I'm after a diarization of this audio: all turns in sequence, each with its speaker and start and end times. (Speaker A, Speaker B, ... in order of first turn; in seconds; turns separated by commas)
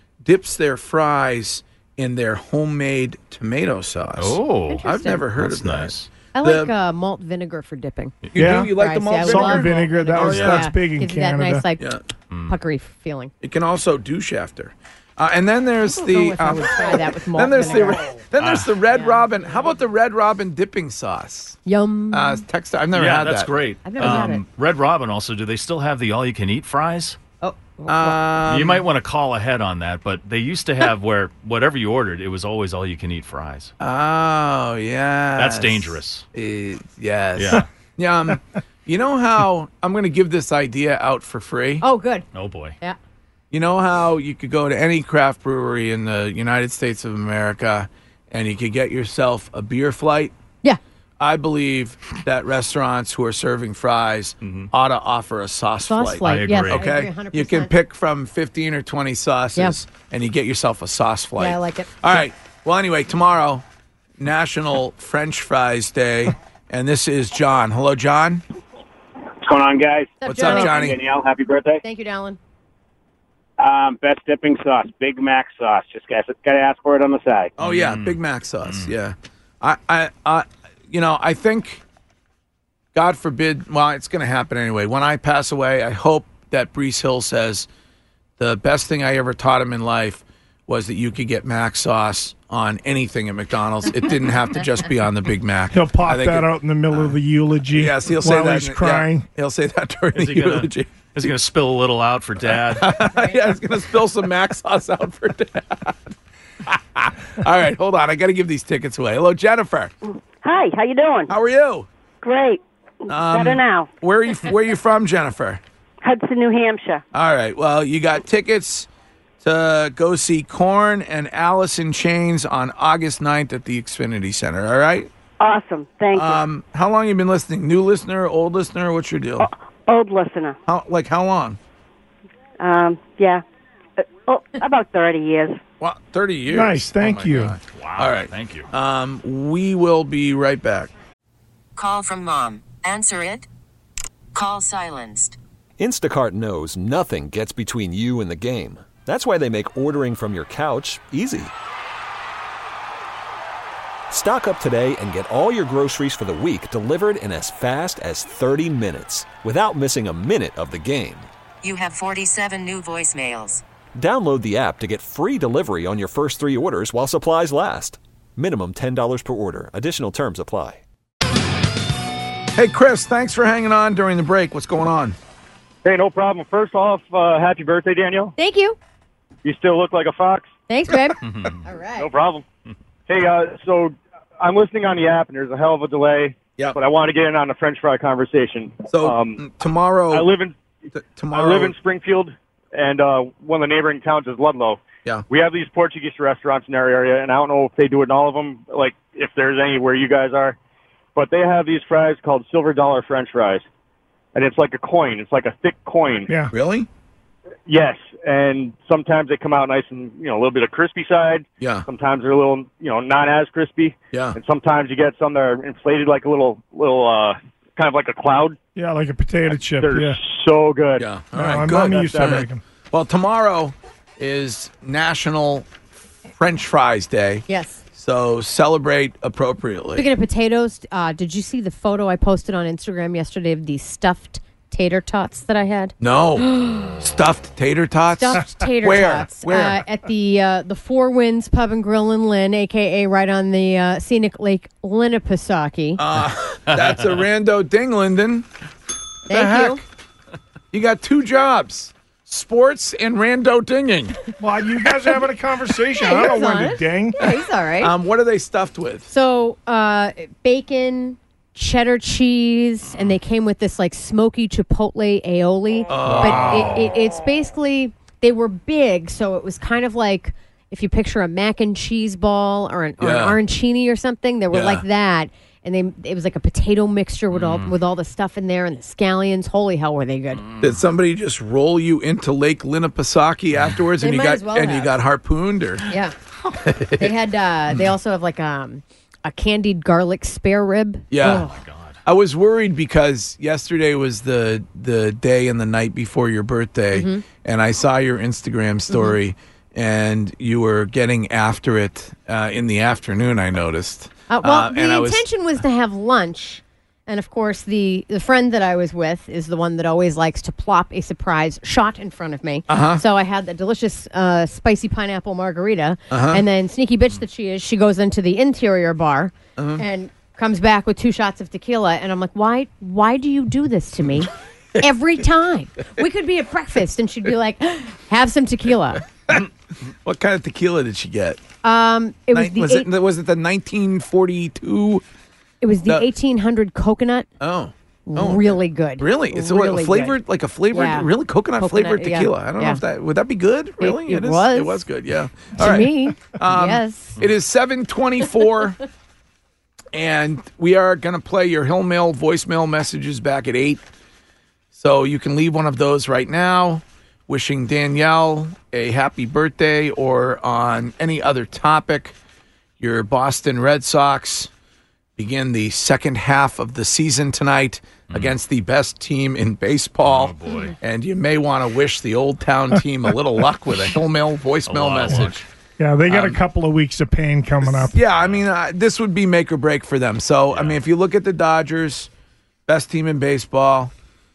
Speaker A: 0.2-6.7, Speaker B: 4.2-6.1, Speaker C: 4.7-5.2, Speaker C: 6.3-11.9, Speaker A: 8.3-10.7, Speaker D: 8.4-11.7, Speaker C: 12.5-13.3, Speaker A: 13.4-21.6, Speaker C: 15.9-18.1, Speaker B: 18.4-18.7, Speaker C: 18.9-19.6, Speaker C: 21.7-22.4, Speaker A: 22.1-24.3, Speaker B: 22.9-27.2, Speaker C: 23.9-24.4, Speaker C: 27.4-28.2, Speaker A: 27.9-28.9, Speaker B: 28.5-33.7, Speaker A: 33.8-41.8, Speaker B: 35.4-36.2, Speaker B: 37.4-37.7, Speaker C: 41.8-42.3, Speaker B: 42.3-42.8, Speaker A: 43.5-50.3, Speaker A: 51.2-63.6, Speaker B: 54.4-54.7, Speaker C: 55.9-57.7, Speaker B: 56.2-56.9, Speaker C: 61.4-61.9, Speaker A: 64.2-68.4, Speaker E: 69.4-71.8, Speaker C: 70.2-71.0, Speaker A: 70.2-71.0, Speaker C: 71.8-72.4, Speaker E: 73.6-77.5, Speaker A: 77.6-81.8, Speaker B: 77.6-78.9, Speaker A: 82.9-87.7, Speaker A: 88.4-97.2, Speaker D: 95.7-99.3, Speaker A: 97.7-101.3, Speaker B: 100.2-103.0, Speaker A: 102.7-106.1, Speaker A: 106.7-109.9, Speaker F: 110.4-111.3, Speaker A: 111.3-111.9, Speaker F: 112.2-113.9, Speaker A: 113.1-115.6, Speaker F: 116.0-117.0, Speaker A: 117.1-118.9, Speaker A: 119.4-125.1, Speaker F: 125.4-126.4, Speaker A: 126.1-129.5, Speaker F: 129.4-130.6, Speaker A: 130.7-131.6, Speaker F: 132.6-133.4, Speaker F: 134.0-135.6, Speaker A: 135.8-140.9, Speaker D: 136.5-137.6, Speaker B: 137.7-138.7, Speaker G: 141.8-143.5, Speaker G: 144.3-145.4, Speaker H: 145.8-151.5, Speaker H: 154.1-161.3, Speaker G: 161.6-163.6, Speaker H: 164.0-170.8, Speaker A: 172.6-175.2, Speaker I: 175.8-178.3, Speaker C: 178.4-178.8, Speaker I: 179.4-180.5, Speaker C: 180.7-182.1, Speaker B: 181.2-181.6, Speaker I: 182.0-182.4, Speaker I: 183.1-189.4, Speaker A: 188.9-190.3, Speaker I: 190.1-190.6, Speaker A: 190.9-191.8, Speaker I: 191.3-200.6, Speaker I: 201.2-203.7, Speaker I: 204.3-206.3, Speaker D: 206.3-206.5, Speaker A: 206.5-206.9, Speaker I: 207.7-218.6, Speaker A: 211.6-211.9, Speaker A: 214.1-214.4, Speaker D: 218.8-220.2, Speaker I: 219.8-221.1, Speaker A: 221.0-225.7, Speaker D: 221.3-222.6, Speaker I: 221.9-222.4, Speaker A: 226.3-230.1, Speaker C: 227.5-227.8, Speaker C: 230.0-235.9, Speaker A: 236.0-239.8, Speaker C: 236.6-236.9, Speaker C: 238.1-246.0, Speaker A: 246.0-248.5, Speaker A: 249.3-249.8, Speaker C: 249.3-249.8, Speaker A: 250.7-254.2, Speaker D: 254.4-257.3, Speaker C: 256.0-257.9, Speaker A: 257.8-259.1, Speaker C: 259.1-280.4, Speaker A: 265.9-266.8, Speaker A: 273.0-273.4, Speaker A: 274.5-274.9, Speaker B: 277.3-277.8, Speaker B: 280.4-280.7, Speaker A: 280.6-285.9, Speaker C: 284.0-285.0, Speaker C: 285.9-286.1, Speaker A: 286.6-287.1, Speaker C: 287.0-291.6, Speaker A: 291.1-291.5, Speaker B: 291.3-292.0, Speaker A: 292.1-305.2, Speaker C: 296.9-297.2, Speaker C: 298.9-299.1, Speaker C: 304.3-329.0, Speaker A: 312.7-313.0, Speaker A: 316.1-316.4, Speaker A: 319.6-319.8, Speaker A: 330.0-331.4, Speaker C: 331.6-332.9, Speaker A: 332.3-335.0, Speaker C: 335.6-337.3, Speaker A: 337.4-348.8, Speaker C: 338.1-340.2, Speaker C: 340.7-342.8, Speaker C: 343.8-344.9, Speaker C: 345.6-347.2, Speaker A: 349.9-353.8, Speaker A: 354.7-362.1, Speaker A: 362.8-364.5, Speaker A: 365.2-375.4, Speaker B: 368.1-368.4, Speaker B: 370.1-370.8, Speaker B: 374.7-375.4, Speaker D: 375.8-377.9, Speaker A: 376.1-376.4, Speaker A: 377.6-382.1, Speaker B: 378.2-378.4, Speaker B: 380.5-380.8, Speaker A: 382.7-383.9